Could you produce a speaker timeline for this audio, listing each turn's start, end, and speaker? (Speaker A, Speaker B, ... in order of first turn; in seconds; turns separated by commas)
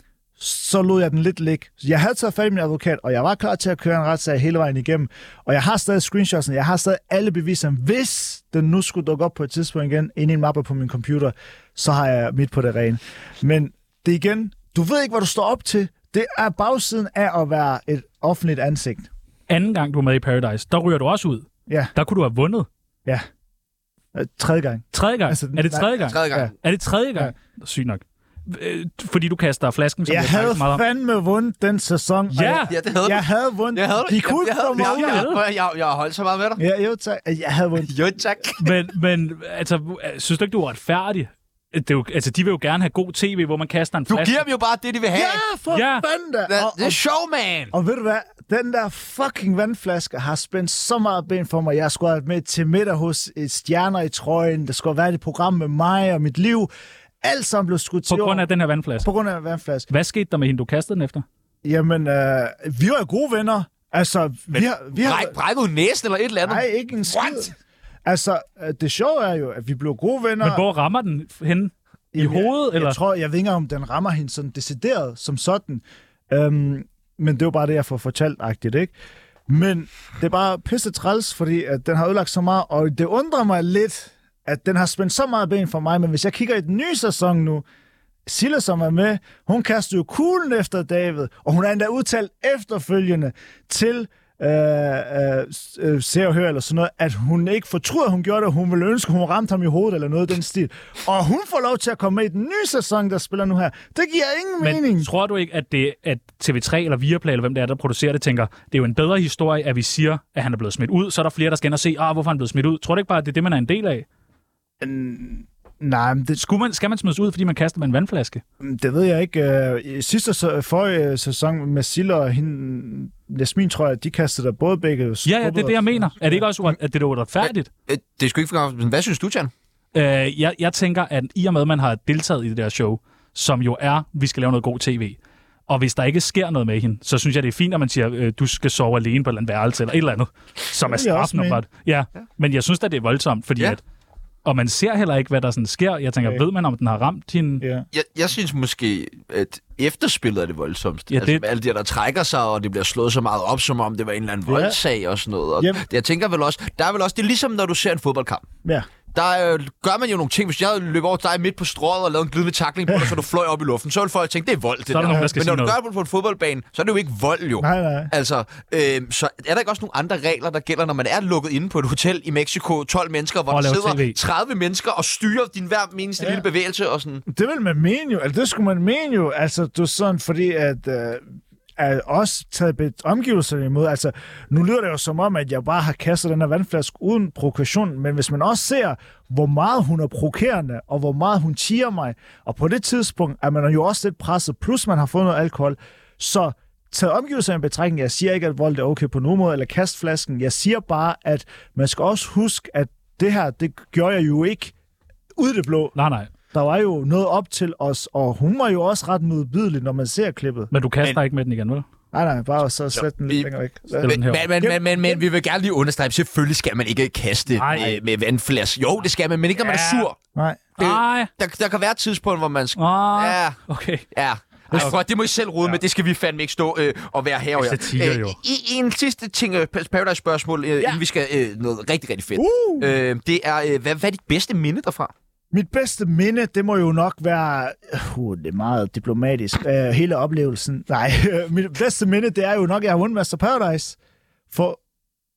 Speaker A: 0.4-19.1, Speaker B: 19.5-22.7, Speaker A: 24.1-26.5, Speaker B: 24.9-30.8, Speaker C: 26.0-26.5, Speaker A: 30.1-35.3, Speaker B: 32.3-32.7, Speaker C: 32.7-36.6, Speaker B: 34.8-35.4, Speaker A: 36.6-37.9, Speaker C: 37.9-38.7, Speaker B: 38.6-44.4, Speaker C: 44.1-45.4, Speaker A: 45.1-47.0, Speaker B: 45.7-46.1, Speaker C: 46.5-47.7, Speaker A: 47.7-56.7, Speaker A: 57.2-58.5, Speaker B: 58.1-59.1, Speaker A: 59.0-59.9, Speaker B: 59.9-61.2, Speaker A: 61.6-65.3, Speaker C: 64.5-67.5, Speaker A: 66.5-67.5, Speaker A: 68.0-70.7, Speaker B: 70.4-73.0, Speaker A: 72.1-78.9, Speaker A: 79.5-87.7, Speaker A: 88.3-105.1, Speaker B: 104.6-114.1, Speaker A: 114.8-116.4, Speaker B: 116.4-118.4, Speaker A: 118.6-126.5, Speaker B: 125.2-127.7, Speaker C: 127.4-129.5, Speaker B: 129.9-143.8, Speaker A: 140.8-141.6, Speaker B: 144.4-147.6, Speaker A: 147.6-147.9, Speaker C: 147.9-158.5, Speaker B: 151.1-151.4, Speaker A: 154.5-154.8, Speaker A: 155.6-155.8, Speaker C: 159.1-177.2, Speaker B: 164.9-165.8, Speaker A: 165.1-165.3, Speaker A: 167.6-168.1, Speaker B: 173.5-174.2, Speaker A: 176.2-176.5, Speaker A: 177.3-204.7, Speaker A: 205.4-205.9, Speaker B: 205.9-206.3, Speaker A: 206.5-210.7, Speaker B: 210.7-211.8, Speaker A: 212.1-215.2, Speaker B: 214.0-214.5, Speaker C: 214.2-220.2, Speaker B: 217.6-218.0, Speaker B: 219.6-220.1, Speaker A: 220.3-220.7, Speaker B: 220.8-221.3, Speaker C: 220.8-223.6, Speaker B: 222.8-224.1, Speaker C: 224.1-235.1, Speaker B: 227.6-228.4, Speaker A: 232.3-232.9, Speaker A: 235.5-244.0, Speaker A: 244.5-244.8